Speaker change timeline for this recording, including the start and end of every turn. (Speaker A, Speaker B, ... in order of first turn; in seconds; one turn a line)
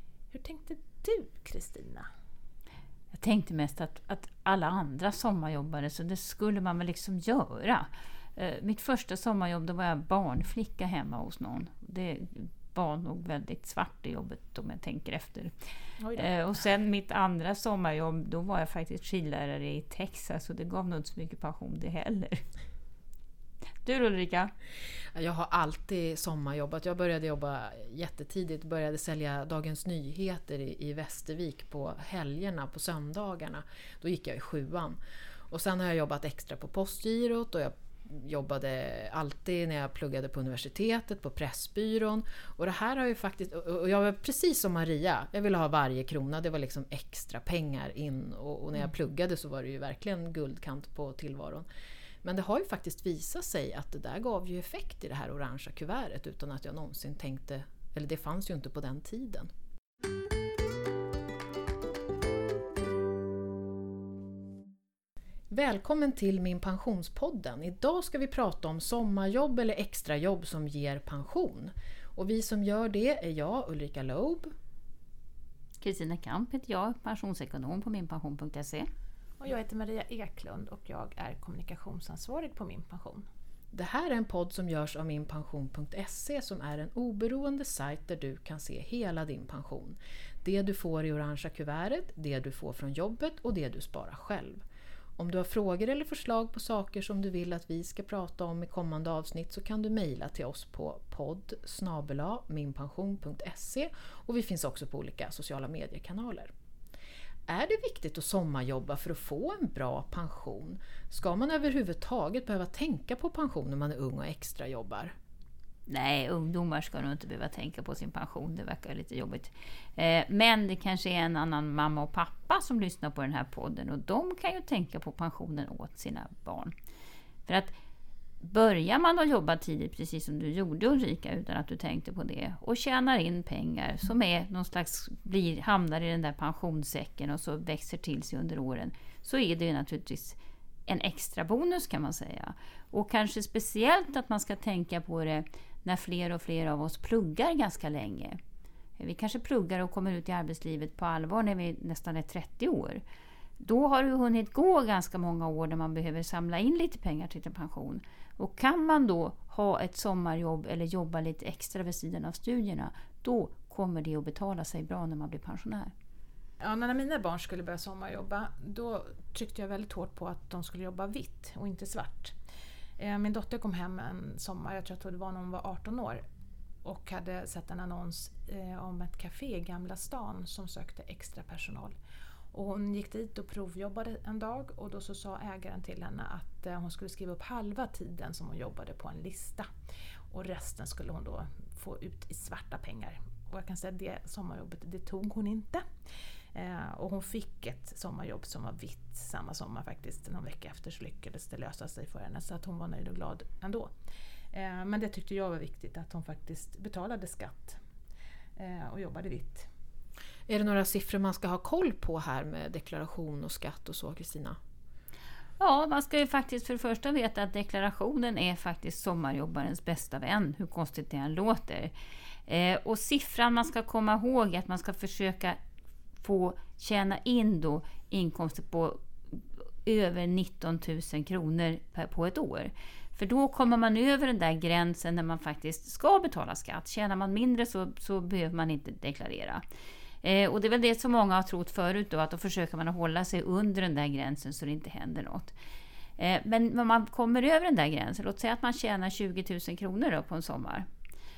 Speaker A: 0.3-2.1
Speaker B: 3.1-15.5
Speaker A: 16.0-16.3
Speaker B: 16.1-22.4
Speaker B: 23.8-24.5
Speaker C: 25.1-51.6
Speaker C: 52.2-59.5
Speaker C: 65.5-74.5
Speaker B: 75.8-78.9
Speaker A: 79.4-83.2
Speaker C: 83.7-94.6
Speaker C: 95.2-106.5
Speaker C: 107.5-115.1
Speaker B: 115.9-126.7
Speaker B: 127.5-127.7
Speaker B: 128.4-148.4
Speaker B: 149.0-153.0
Speaker B: 153.6-165.9
Speaker A: 166.6-172.3
Speaker A: 173.0-176.2
Speaker A: 176.8-181.9
Speaker A: 182.5-189.7
Speaker A: 190.3-195.8
Speaker A: 196.5-203.9
Speaker A: 204.5-207.8
Speaker A: 208.6-209.7
Speaker C: 210.5-214.6
Speaker B: 215.6-221.9
Speaker B: 222.5-225.6
Speaker B: 226.2-239.6
Speaker B: 240.2-245.5
Speaker B: 246.2-250.8